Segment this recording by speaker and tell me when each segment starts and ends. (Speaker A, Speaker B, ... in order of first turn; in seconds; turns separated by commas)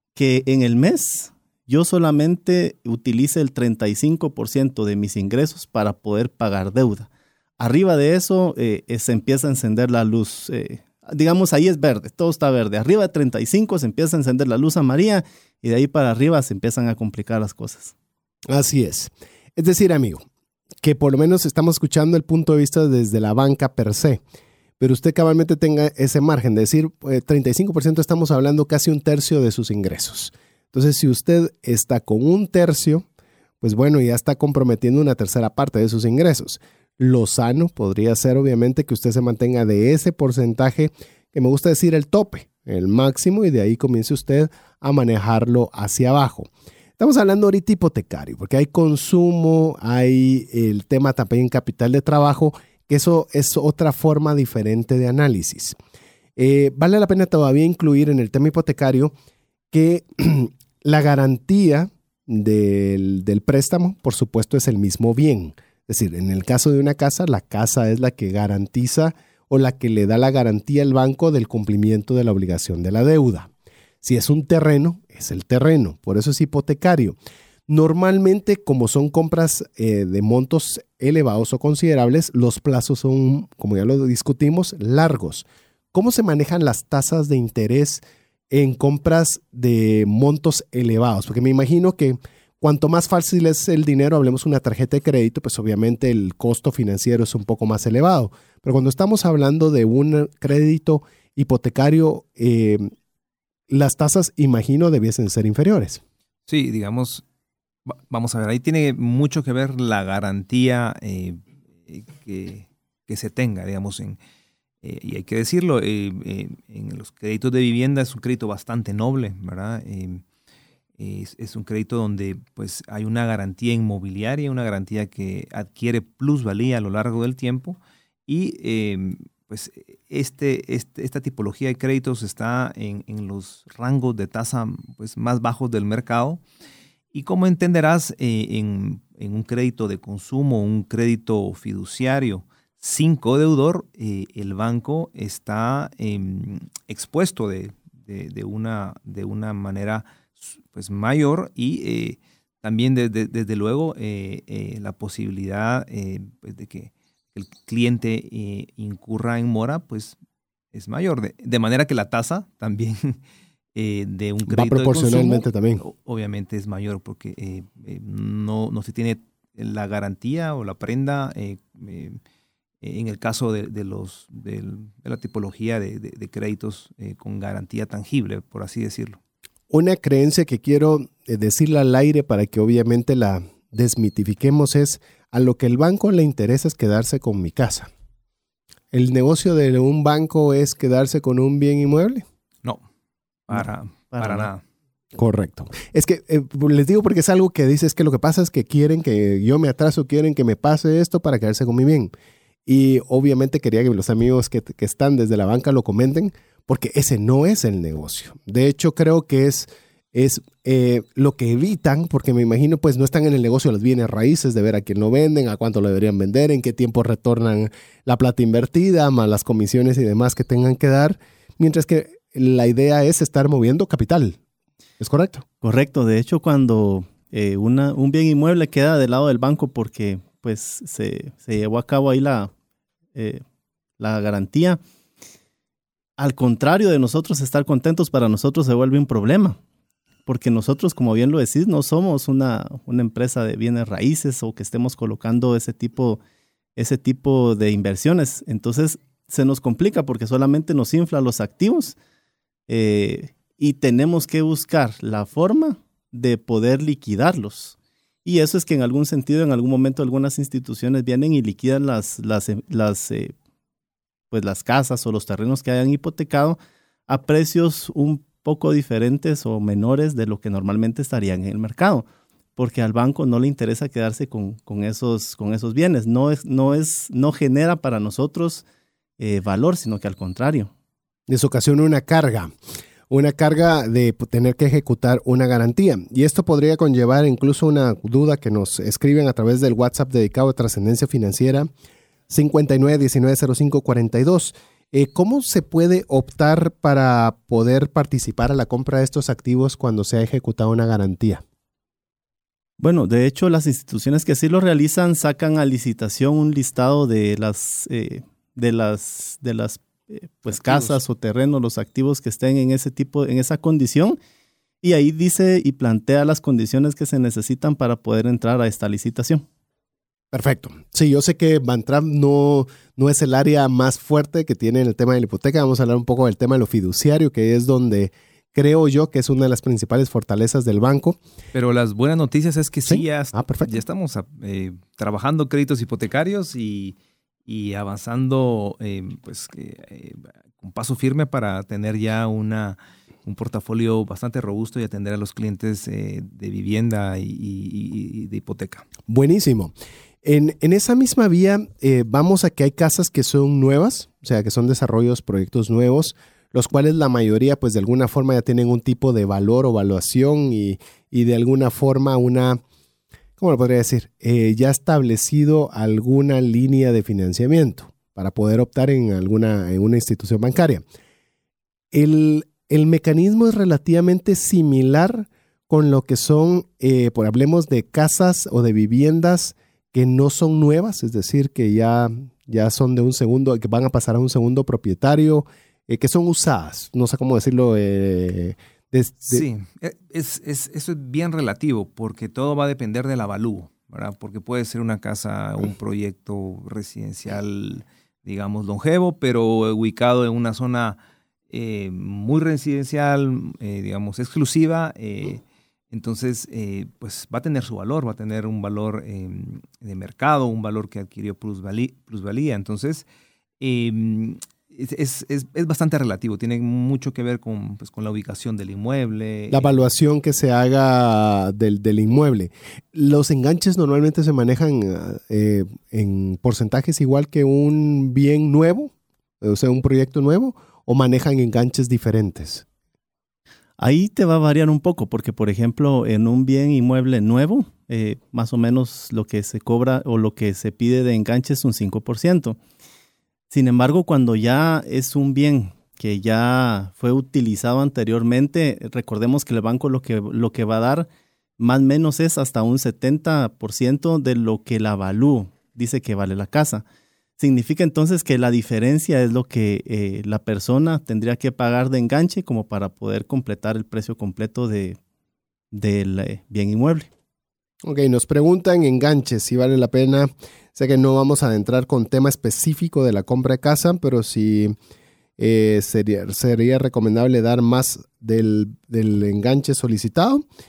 Speaker A: 0.1-17.9, Speaker B: 18.5-20.2, Speaker B: 20.8-24.2, Speaker B: 24.8-33.1, Speaker B: 33.6-55.8, Speaker B: 56.4-59.1, Speaker B: 59.7-73.5, Speaker B: 74.0-77.2, Speaker B: 77.7-102.9, Speaker B: 103.7-106.0, Speaker C: 106.5-107.2, Speaker C: 107.9-114.2, Speaker C: 114.8-120.2, Speaker C: 121.0-136.4, Speaker C: 137.1-160.2, Speaker C: 160.7-163.2, Speaker C: 163.8-172.2, Speaker B: 164.5-165.8, Speaker C: 172.8-179.2, Speaker B: 179.7-187.9, Speaker B: 188.9-192.2, Speaker C: 193.5-194.6, Speaker A: 194.1-194.4, Speaker B: 195.2-202.1, Speaker B: 202.7-224.4, Speaker B: 225.0-225.4, Speaker A: 225.6-232.5, Speaker A: 233.2-233.4, Speaker A: 234.0-234.8, Speaker A: 236.2-239.6, Speaker A: 240.3-246.2, Speaker A: 246.8-252.0, Speaker A: 252.7-263.3, Speaker A: 264.3-278.6, Speaker A: 279.2-280.7, Speaker B: 281.3-282.5, Speaker B: 283.1-291.7, Speaker B: 292.3-301.4, Speaker A: 302.8-314.2, Speaker B: 310.6-311.0, Speaker A: 314.8-319.4, Speaker B: 320.3-331.2, Speaker C: 331.5-337.0, Speaker B: 332.9-333.8, Speaker C: 337.5-348.9, Speaker B: 349.1-362.6, Speaker B: 363.4-370.8, Speaker B: 371.9-389.5, Speaker C: 389.3-401.0, Speaker C: 401.5-413.1, Speaker C: 413.6-419.8, Speaker B: 419.5-432.6, Speaker A: 433.8-442.6, Speaker A: 443.5-451.1, Speaker A: 451.6-456.8, Speaker A: 457.4-465.0, Speaker A: 465.7-467.1, Speaker B: 467.8-474.8, Speaker B: 475.4-480.4